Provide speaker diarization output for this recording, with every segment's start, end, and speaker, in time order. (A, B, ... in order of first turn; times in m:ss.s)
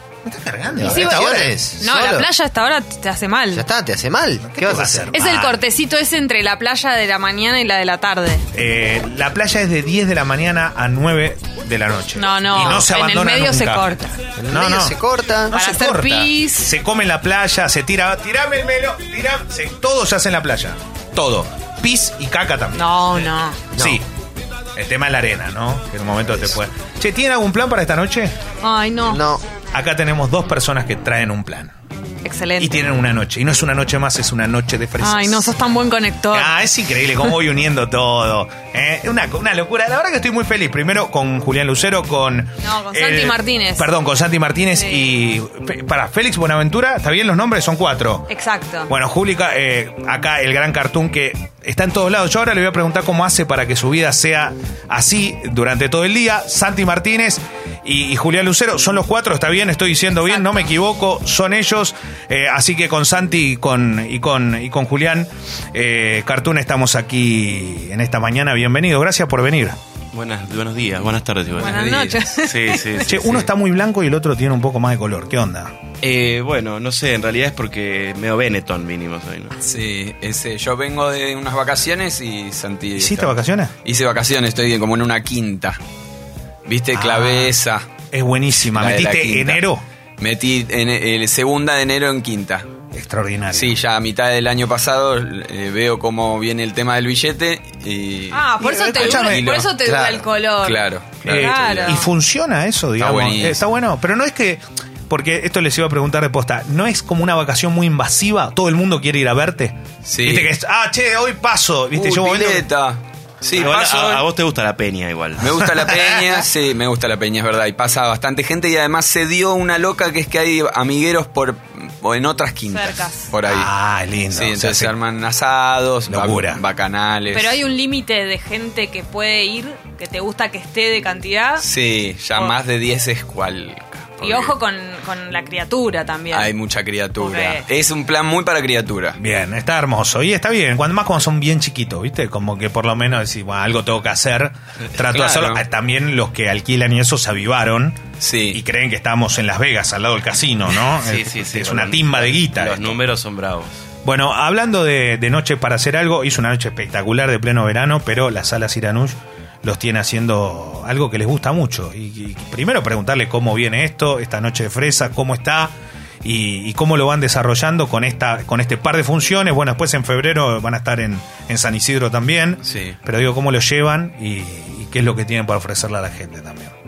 0:00.2-0:01.7 A
0:00.8-0:02.3 B
0:00.8-0:03.7 C
0:03.5-0:05.1 B
0:04.4-0:05.6 A
0:05.1-0:08.4 C
0:08.5-0:22.9 A
0:12.1-0:14.2 C
0:14.4-0:15.6 B
0:15.5-0:16.8 C
0:22.8-0:23.8 C
0:23.7-0:24.0 B
0:23.8-0:24.1 A
0:24.8-0:28.4 A
0:28.6-0:29.2 C
0:29.1-0:29.4 B
0:29.6-0:31.7 A
0:32.2-0:32.9 C
0:32.6-0:35.5 A
0:35.0-0:36.7 C
0:36.3-0:48.3 A
0:42.6-0:43.9 C
0:44.7-0:45.1 C
0:48.3-0:48.9 C
0:48.9-1:09.8 A
1:00.1-1:00.7 C
1:10.1-1:13.5 D
1:11.6-1:13.1 C
1:13.1-1:15.7 A
1:16.0-1:19.6 D
1:19.6-1:25.8 E
1:23.0-1:23.7 A
1:26.7-1:27.9 E
1:26.9-1:27.5 A
1:28.1-1:29.8 A
1:28.6-1:29.6 E
1:30.2-1:32.7 E
1:32.9-1:33.8 A
1:33.5-1:39.7 E
1:38.3-1:42.1 C
1:38.6-1:39.5 A
1:39.9-1:40.2 B
1:40.6-1:42.1 E
1:41.2-1:52.7 A
1:43.0-1:43.6 E
1:50.0-1:50.5 E
1:51.9-1:54.3 E
1:53.6-1:55.6 D
1:55.4-2:03.7 E
1:55.9-1:56.2 A
2:02.7-2:03.4 C
2:03.5-2:04.9 A
2:04.3-2:07.5 E
2:06.1-2:06.6 A
2:07.3-2:11.7 C
2:11.6-2:14.6 E
2:14.2-2:16.6 C
2:16.3-2:19.2 E
2:17.2-2:17.7 C
2:19.2-2:33.0 A
2:25.1-2:25.6 E
2:28.2-2:28.6 E
2:30.7-2:33.8 D
2:34.0-2:56.7 A
2:52.6-2:53.0 E